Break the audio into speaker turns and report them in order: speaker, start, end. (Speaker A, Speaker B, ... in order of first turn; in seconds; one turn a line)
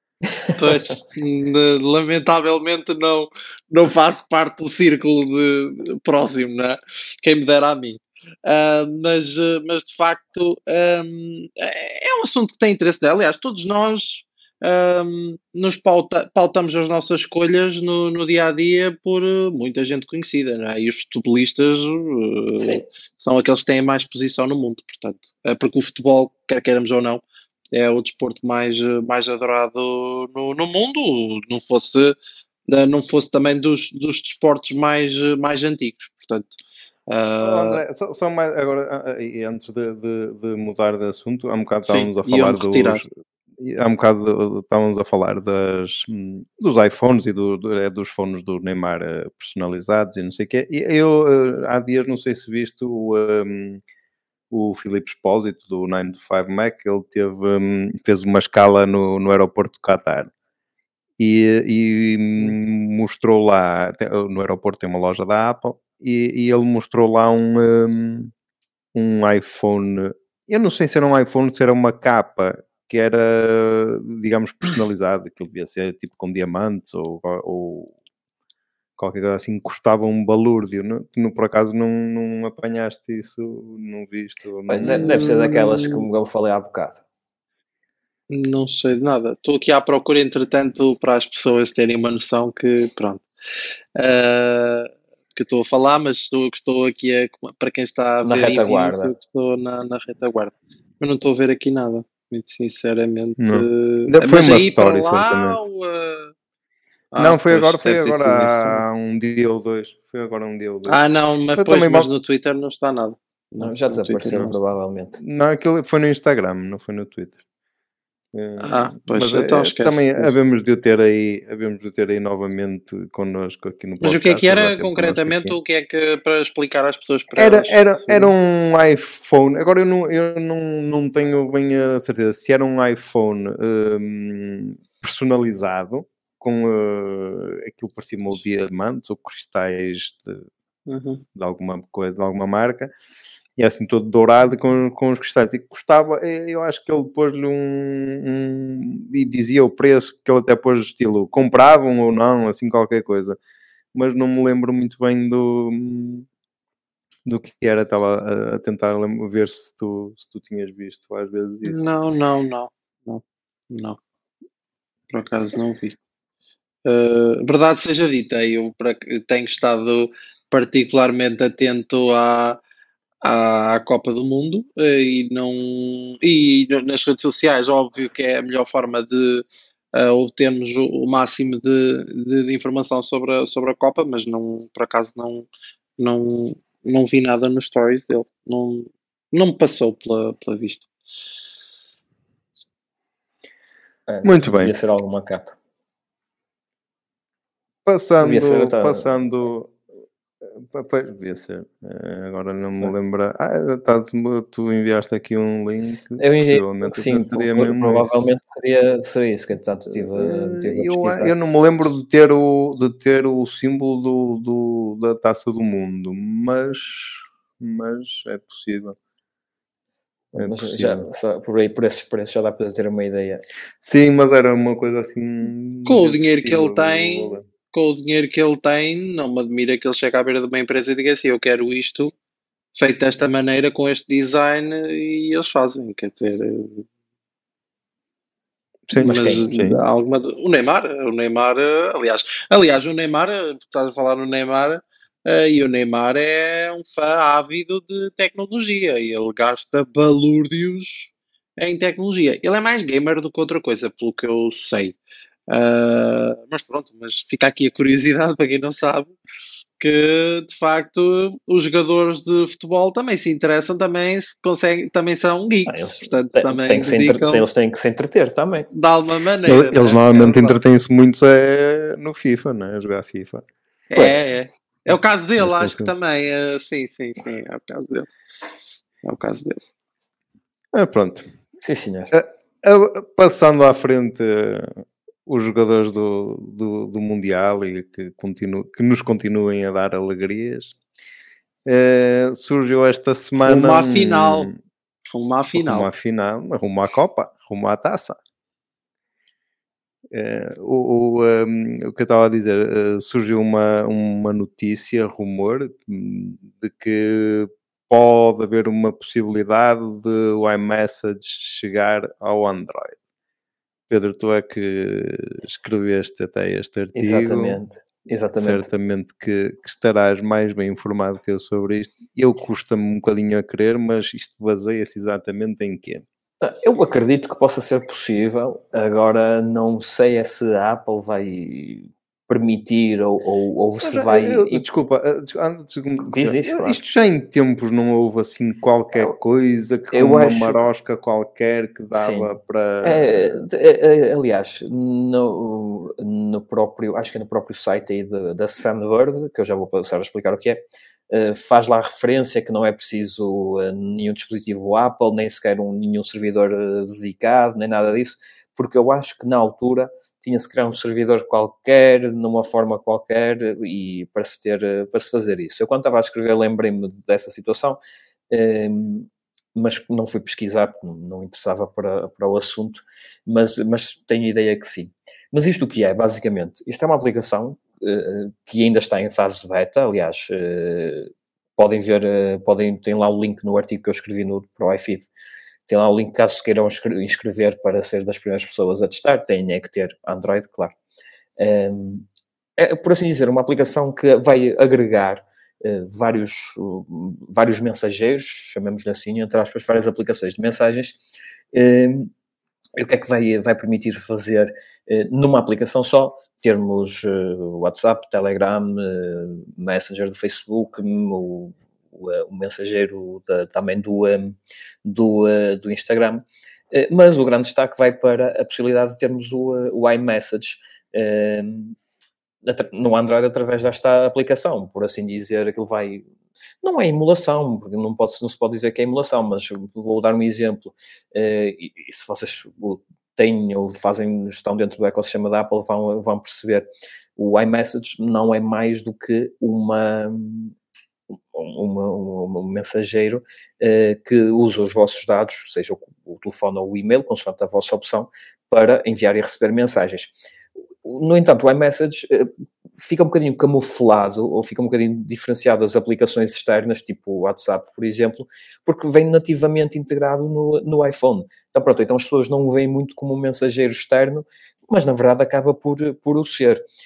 Speaker A: 0.6-32.1
Speaker B: 22.6-22.8
Speaker A: 32.7-37.8
Speaker C: 37.4-43.1
Speaker A: 41.9-43.0
Speaker C: 43.6-53.8
Speaker C: 54.5-60.3
Speaker C: 61.2-68.3
Speaker C: 68.9-77.9
Speaker C: 79.0-85.1
Speaker B: 84.7-87.0
Speaker A: 84.8-86.1
Speaker A: 88.3-93.2
Speaker A: 94.0-106.3
Speaker B: 98.2-99.1
Speaker C: 103.4-105.6
Speaker A: 107.1-108.8
Speaker C: 107.2-111.0
Speaker A: 110.9-114.5
Speaker C: 111.6-112.1
Speaker B: 113.6-115.2
Speaker C: 115.2-117.4
Speaker C: 118.3-125.6
Speaker A: 118.6-120.3
Speaker A: 124.0-128.3
Speaker C: 127.4-140.4
Speaker A: 140.9-141.2
Speaker C: 141.4-142.9
Speaker C: 143.6-153.4
Speaker C: 153.9-156.3
Speaker C: 157.2-161.9
Speaker A: 161.7-164.0
Speaker A: 165.1-166.0
Speaker A: 166.8-172.6
Speaker A: 173.2-185.5
Speaker A: 186.0-190.9
Speaker B: 194.1-195.6
Speaker C: 194.2-194.7
Speaker C: 197.9-199.8
Speaker B: 198.2-199.1
Speaker C: 200.4-208.3
Speaker B: 206.2-211.3
Speaker C: 209.9-218.9
Speaker B: 220.3-223.4
Speaker C: 220.4-221.1
Speaker C: 223.8-227.4
Speaker A: 225.9-232.1
Speaker A: 232.8-236.9
Speaker C: 238.9-239.8
Speaker B: 239.0-239.4
Speaker A: 239.0-255.0
Speaker A: 255.5-259.1
Speaker A: 259.8-267.5
Speaker B: 265.6-268.7
Speaker A: 268.7-270.6
Speaker C: 269.4-273.4
Speaker A: 273.9-278.1
Speaker C: 275.4-275.9
Speaker A: 279.0-279.6
Speaker C: 280.7-281.3
Speaker B: 281.6-282.1
Speaker C: 282.1-290.8
Speaker C: 291.6-294.6
Speaker A: 293.4-294.5
Speaker A: 295.1-295.9
Speaker C: 295.6-298.2
Speaker C: 300.1-313.0
Speaker C: 313.9-317.6
Speaker B: 316.9-318.7
Speaker C: 318.4-326.0
Speaker B: 326.4-334.6
Speaker C: 333.8-343.4
Speaker B: 336.0-336.8
Speaker B: 339.9-340.6
Speaker B: 341.9-367.8
Speaker B: 368.3-385.1
Speaker B: 385.7-390.7
Speaker B: 391.4-392.1
Speaker B: 392.6-401.0
Speaker B: 401.5-402.1
Speaker B: 402.8-421.8
Speaker B: 422.4-426.1
Speaker B: 426.6-440.6
Speaker B: 441.3-450.1
Speaker B: 450.8-466.6